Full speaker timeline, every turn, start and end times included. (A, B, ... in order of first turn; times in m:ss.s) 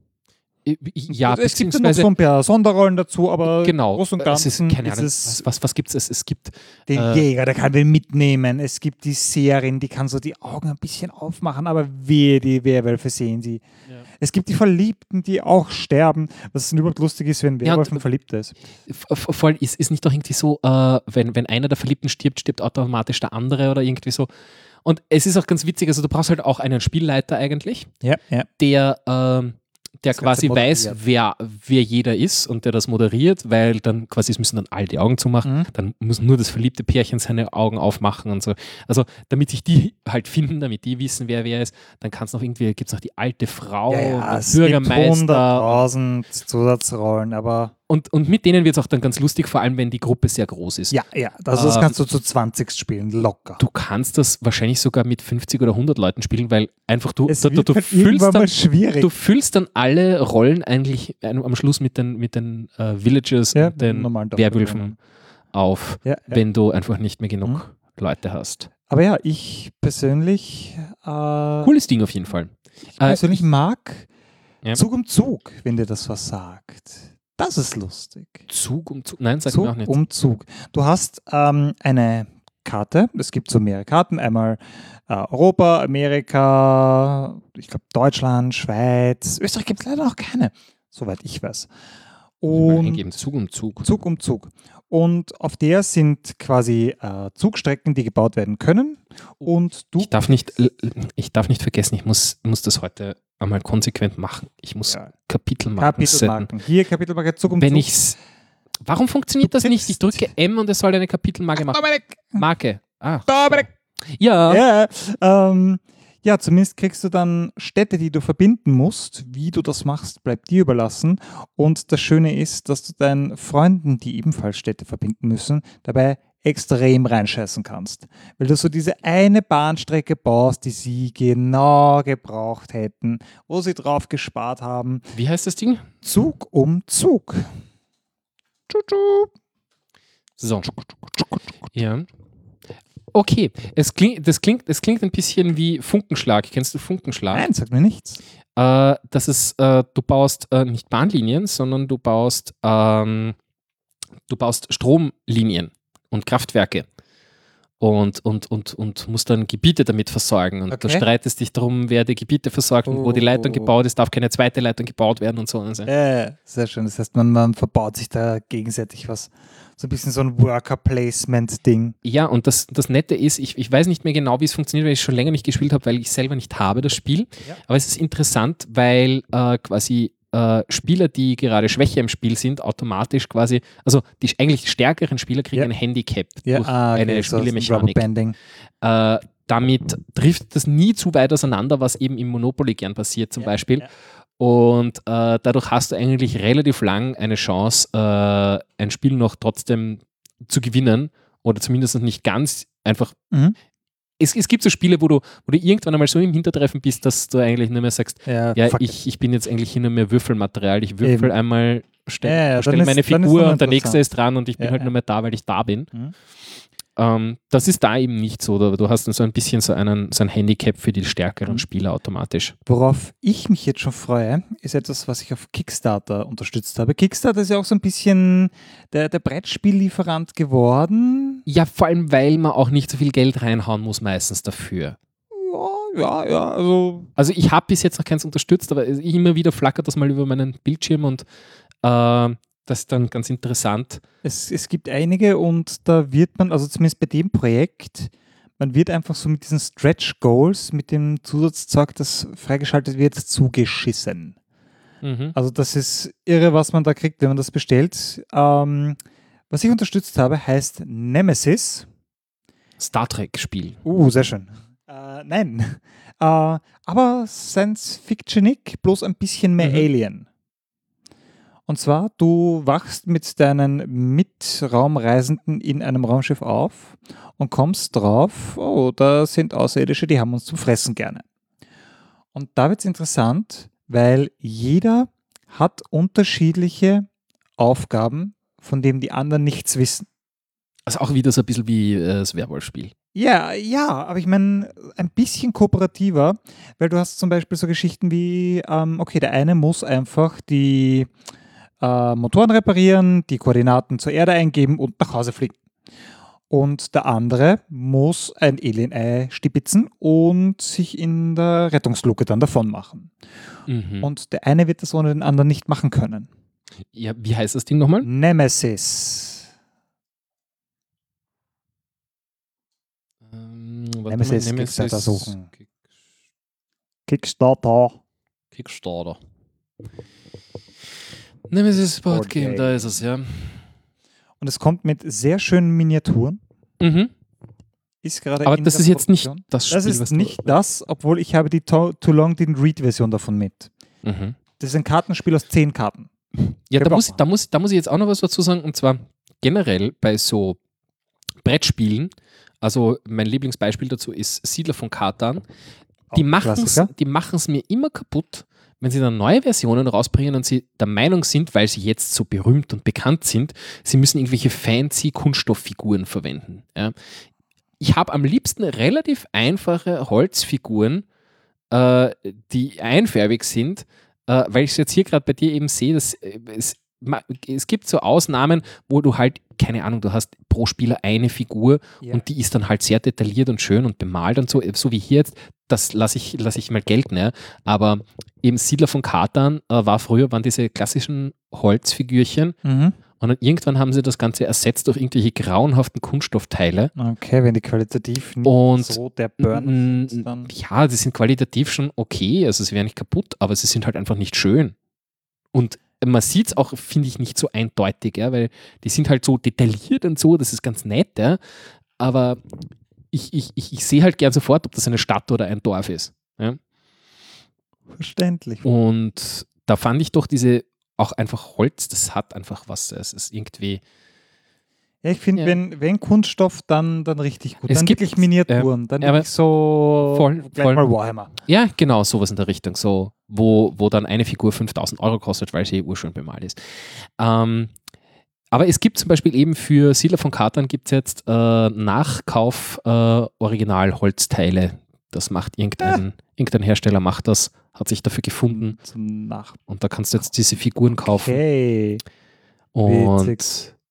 0:00.6-0:02.1 A
0:01.1-0:05.4 B
0:03.4-0:07.2 A
0:06.9-0:13.6 B
0:14.2-0:18.5 B
0:17.6-0:18.0 A
0:18.9-0:24.3 A
0:24.8-0:27.9 A
0:28.0-0:28.5 B
0:28.6-0:45.8 A
0:30.1-0:31.0 B
0:35.4-0:35.7 B
0:43.9-0:47.7 B
0:47.9-0:51.0 A
0:50.9-0:53.6 B
0:51.5-0:51.9 A
0:53.6-1:04.9 A
0:57.3-0:59.1 B
1:03.5-1:04.9 B
1:05.5-1:08.7 A
1:06.0-1:06.4 B
1:08.9-1:11.7 B
1:11.6-1:13.4 A
1:13.0-1:14.1 B
1:14.7-1:18.4 B
1:18.5-1:20.0 A
1:19.5-1:31.7 B
1:32.4-1:33.0 B
1:32.5-1:33.9 A
1:33.8-1:40.5 B
1:40.0-1:46.5 A
1:45.8-1:47.9 B
1:47.6-1:48.2 A
1:48.8-1:54.6 A
1:49.4-1:50.3 B
1:51.6-1:52.4 B
1:53.3-1:53.7 B
1:54.5-2:15.1 B
2:15.1-2:15.9 A
2:16.0-2:17.5 B
2:18.7-2:19.3 B
2:20.4-2:20.8 A
2:21.7-2:22.1 A
2:23.1-2:27.5 A
2:27.3-2:28.2 B
2:28.6-2:33.4 A
2:34.3-2:36.8 A
2:37.8-2:45.9 A
2:40.7-2:41.0 B
2:42.9-2:43.7 B
2:45.9-2:52.0 B
2:52.0-3:08.0 A
3:06.4-3:08.4 B
3:08.8-3:13.9 A
3:13.4-3:13.8 B
3:14.4-3:23.2 A
3:23.3-3:23.6 B
3:24.2-3:35.9 A
3:28.2-3:28.9 B
3:31.0-3:31.3 B
3:32.2-3:34.0 B
3:34.6-3:34.9 B
3:37.0-3:42.5 A
3:42.6-3:51.4 B
3:51.4-3:55.0 A
3:55.3-3:57.1 B
3:57.2-4:01.2 A
4:01.8-4:04.0 A
4:04.2-4:14.4 B
4:15.0-4:15.3 A
4:15.3-4:19.0 B
4:19.5-4:21.9 B
4:22.8-4:23.8 A
4:23.8-4:30.2 B
4:29.6-4:29.8 A
4:31.7-4:41.2 B
4:42.3-4:47.1 B
4:47.6-4:50.1 B
4:50.9-4:52.9 A
4:53.1-5:01.1 B
5:01.8-5:05.6 B
5:06.5-5:13.1 B
5:13.7-5:14.1 A
5:14.0-5:16.3 B
5:16.9-5:18.1 A
5:18.0-5:19.5 B
5:23.3-5:25.6 A
5:24.1-5:25.5 B
5:27.1-5:28.0 B
5:28.5-5:29.2 A
5:31.5-5:33.6 A
5:31.8-5:33.0 B
5:34.4-5:36.4 B
5:36.8-5:37.1 A
5:38.0-5:43.7 B
5:38.4-5:40.5 A
5:44.0-5:44.4 A
5:44.6-5:46.1 B
5:46.4-5:50.6 A
5:46.8-5:47.2 B
5:51.4-5:55.4 A
5:56.1-5:56.9 B
5:56.1-6:06.9 A
6:07.8-6:11.0 A
6:11.7-6:32.6 A
6:32.6-6:33.0 B
6:33.2-6:36.9 A
6:37.0-6:40.5 B
6:38.4-6:44.8 A
6:45.5-6:51.4 A
6:52.0-6:52.4 A
6:53.1-6:56.6 A
6:57.9-6:58.6 B
6:58.6-7:03.8 A
7:05.0-7:11.3 B
7:07.7-7:09.3 A
7:10.0-7:10.8 A
7:11.4-7:16.6 A
7:17.2-7:17.7 A
7:18.5-7:28.8 A
7:28.5-7:29.6 B
7:29.7-7:31.4 A
7:31.0-7:32.0 B
7:32.7-7:33.7 A
7:32.8-7:33.4 B